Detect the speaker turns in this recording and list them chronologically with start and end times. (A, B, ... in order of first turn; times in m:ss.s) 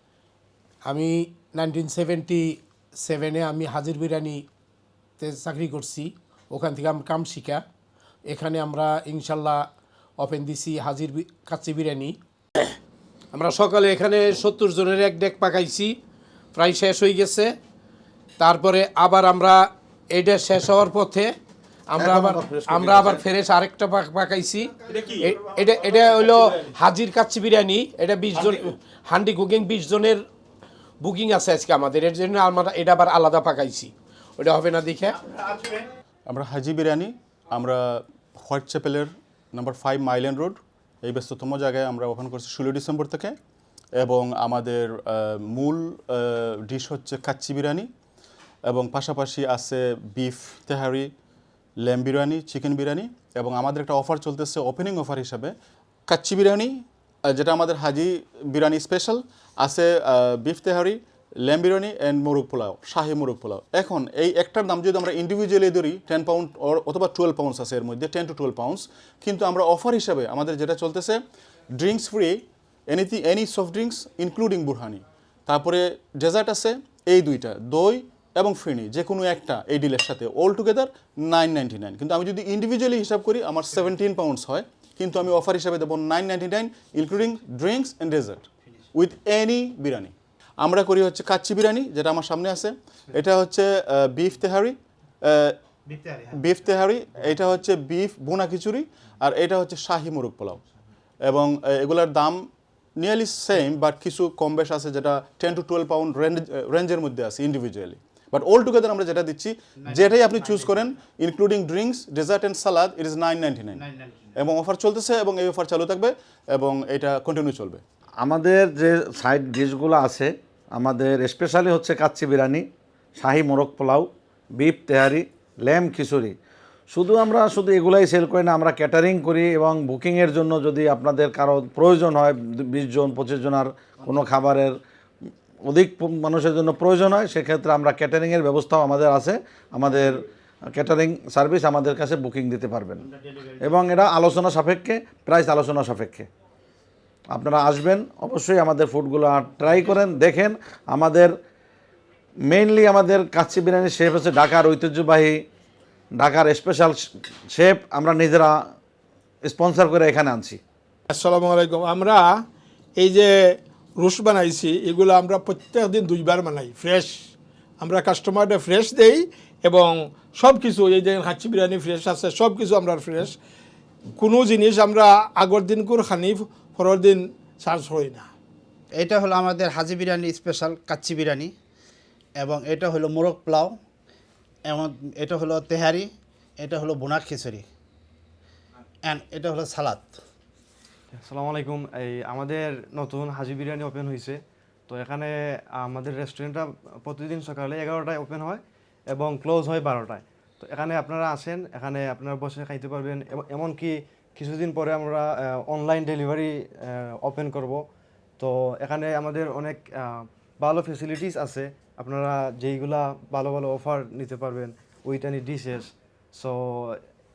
0:00.8-0:04.5 A
0:05.2-0:07.6 A
0:08.3-0:09.7 A
0:10.2-0:12.2 A
0:13.3-0:16.0 A
0:16.5-0:17.6 A
0:18.4-0:21.4 A
0:21.9-0:30.2 A
0:22.0-0:23.2 B
0:24.9-0:25.3 C
0:31.0-0:35.2 A
0:36.3-0:43.3 C
0:44.0-0:47.9 C
0:48.7-0:51.1 C
0:51.8-0:55.5 C
0:56.1-0:56.7 C
0:57.3-1:11.2 C
1:11.8-1:35.5 C
1:35.9-1:36.2 D
1:36.3-1:40.6 C
1:41.2-1:42.4 C
1:43.0-1:53.8 C
1:53.8-1:54.3 D
1:54.4-1:57.8 C
1:58.2-2:02.6 B
2:03.2-2:04.1 B
2:04.6-2:06.3 B
2:06.9-2:14.7 B
2:15.7-2:23.1 B
2:23.6-2:26.3 B
2:27.3-2:31.3 B
2:32.5-2:35.4 B
2:36.2-2:38.6 B
2:39.4-2:40.6 B
2:41.1-2:42.4 E
2:43.0-2:53.4 E
2:54.2-2:58.3 E
2:58.9-3:01.5 D
3:02.4-3:03.8 D
3:04.6-3:07.7 D
3:09.0-3:10.2 D
3:11.1-3:27.8 F
3:28.4-3:37.0 F